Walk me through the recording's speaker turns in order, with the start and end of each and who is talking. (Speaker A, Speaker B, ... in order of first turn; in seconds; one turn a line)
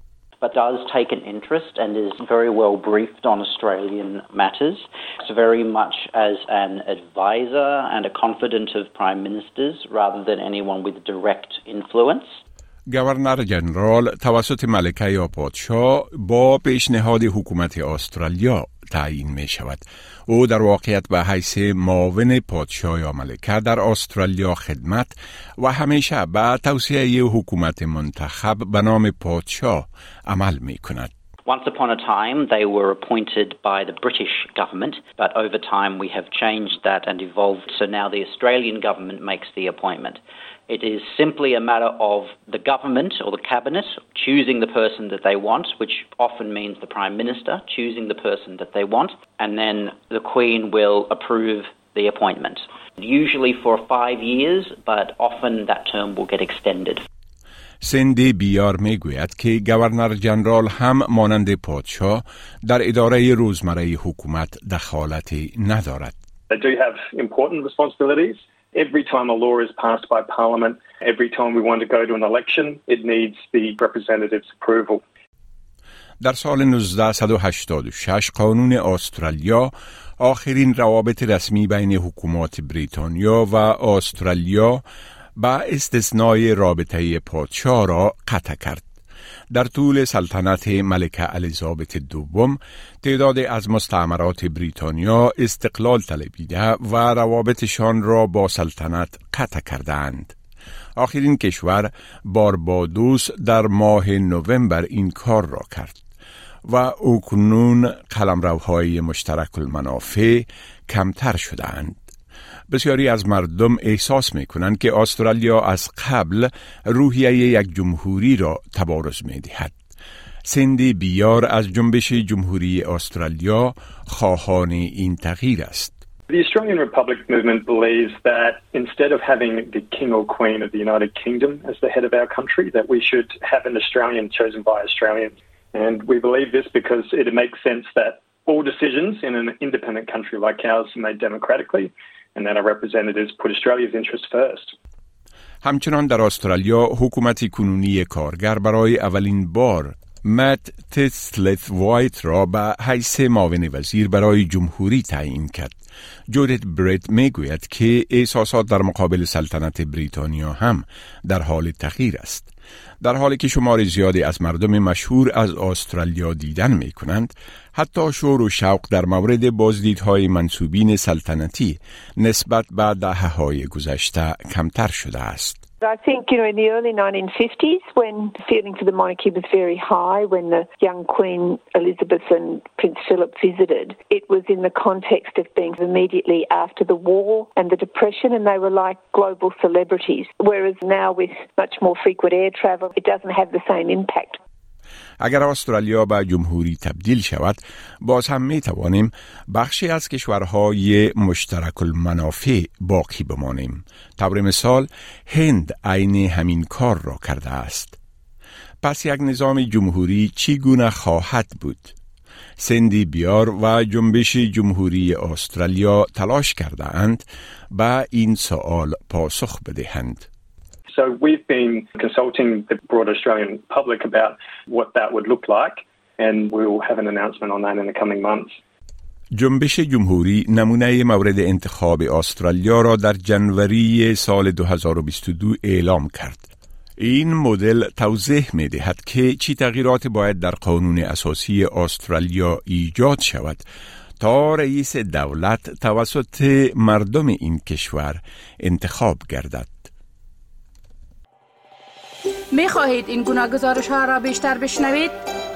Speaker A: 0.4-12.3
Speaker B: 12.9-31.1
Speaker A: 31.5-57.0
Speaker B: 57.8-66.1
Speaker C: 66.5-75.0
Speaker B: 76.2-84.8
Speaker B: 85.4-88.9
Speaker B: 89.5-100.3
Speaker B: 101.0-106.0
Speaker B: 106.7-112.0
Speaker B: 112.7-119.7
Speaker B: 120.4-125.9
Speaker C: 126.3-144.8
Speaker B: 145.6-155.8
Speaker B: 156.3-162.5
Speaker B: 163.0-175.6
Speaker D: 175.8-194.4
Speaker B: 195.2-208.0
Speaker B: 208.8-211.9
Speaker B: 212.6-220.3
Speaker C: 220.9-228.5
Speaker B: 229.3-236.5
Speaker B: 237.0-243.6
Speaker B: 244.2-249.9
Speaker E: 252.5-255.1